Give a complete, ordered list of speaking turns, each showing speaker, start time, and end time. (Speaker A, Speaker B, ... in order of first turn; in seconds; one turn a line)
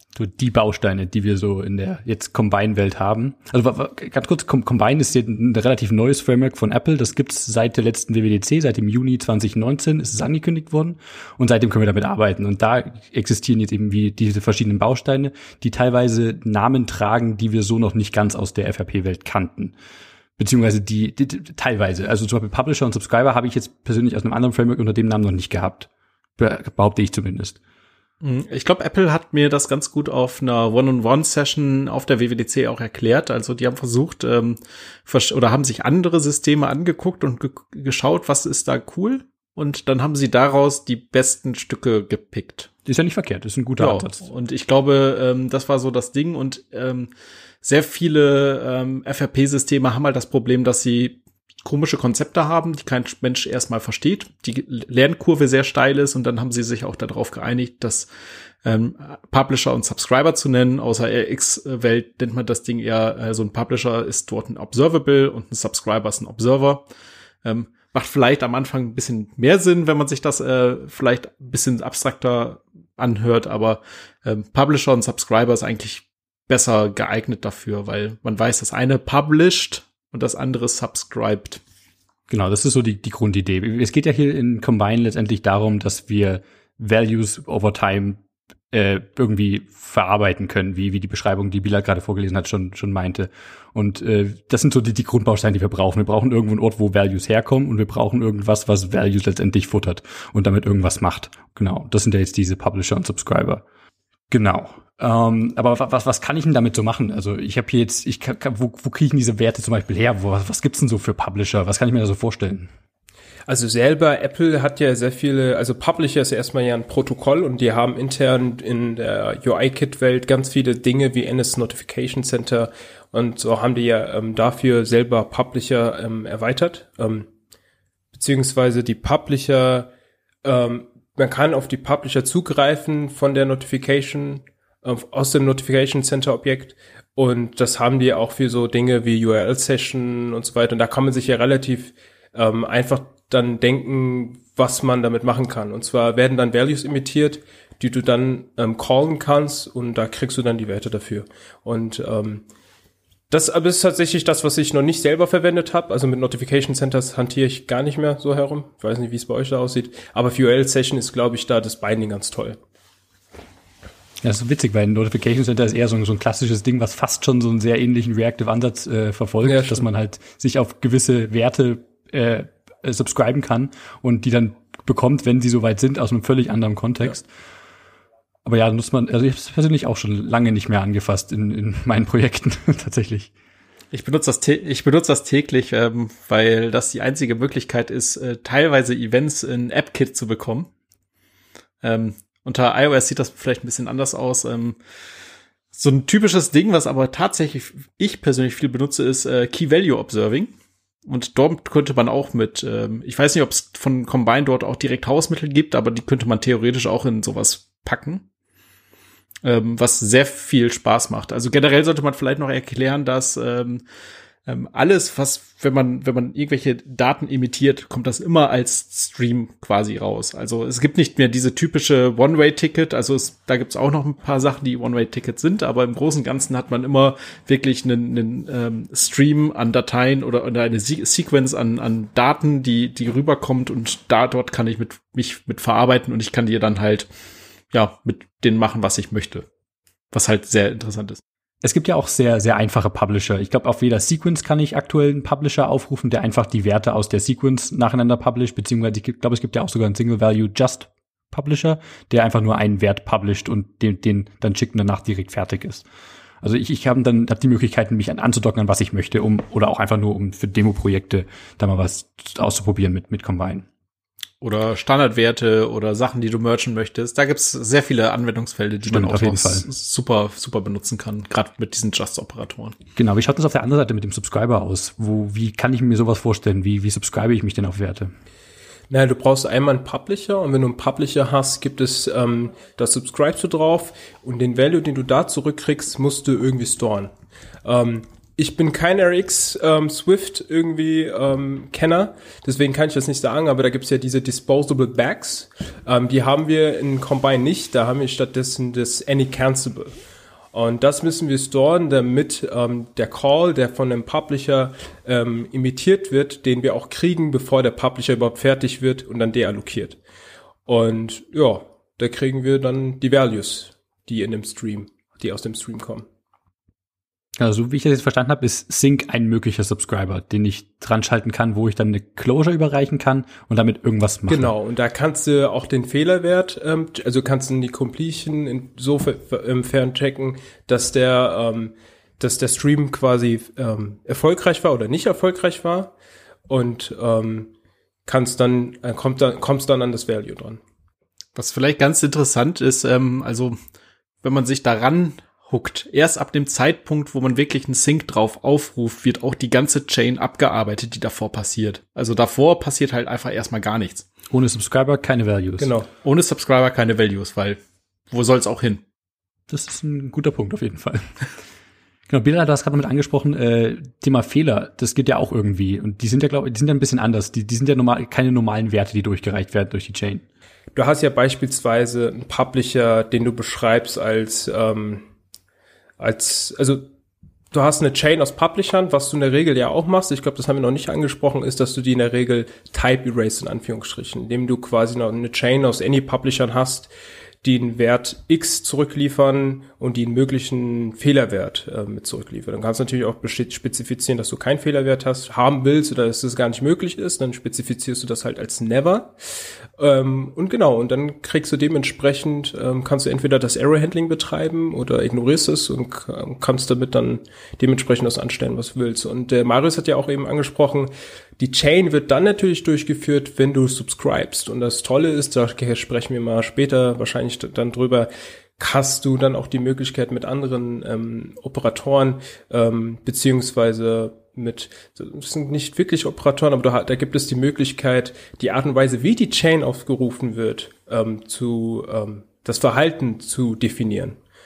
Speaker A: 0.1-19.7
Speaker A: 20.4-27.6
Speaker B: 28.2-42.7
Speaker A: 42.9-44.2
Speaker B: 43.8-47.1
Speaker B: 47.6-58.1
Speaker B: 58.6-66.8
Speaker B: 67.4-81.6
Speaker A: 82.3-103.6
Speaker A: 104.3-112.7
Speaker C: 113.5-127.3
Speaker C: 128.1-129.9
Speaker C: 130.4-152.4
Speaker C: 153.3-162.6
Speaker A: 164.2-177.3
Speaker C: 169.4-169.8
Speaker A: 178.4-183.3
Speaker B: 183.9-190.7
Speaker B: 191.8-194.8
Speaker B: 195.7-200.5
Speaker B: 201.1-208.2
Speaker B: 209.4-213.8
Speaker B: 214.5-237.1
Speaker B: 237.7-239.4
Speaker B: 240.1-241.2
Speaker A: 241.6-255.8
Speaker A: 256.4-263.7
Speaker B: 264.4-272.8
Speaker A: 268.8-269.6
Speaker A: 272.9-278.1
Speaker C: 278.9-287.1
Speaker C: 287.6-299.9
Speaker C: 300.5-310.0
Speaker C: 310.7-316.1
Speaker A: 317.4-324.5
Speaker C: 324.3-335.9
Speaker C: 336.5-337.5
Speaker C: 338.1-340.6
Speaker B: 341.4-343.6
Speaker B: 344.2-354.1
Speaker A: 354.3-355.7
Speaker C: 355.6-355.9
Speaker B: 356.0-357.6
Speaker B: 358.1-358.8
Speaker A: 359.5-361.1
Speaker A: 362.1-370.2
Speaker C: 370.7-375.1
Speaker C: 376.0-376.9
Speaker C: 377.5-386.9
Speaker C: 387.4-399.1
Speaker C: 399.8-434.2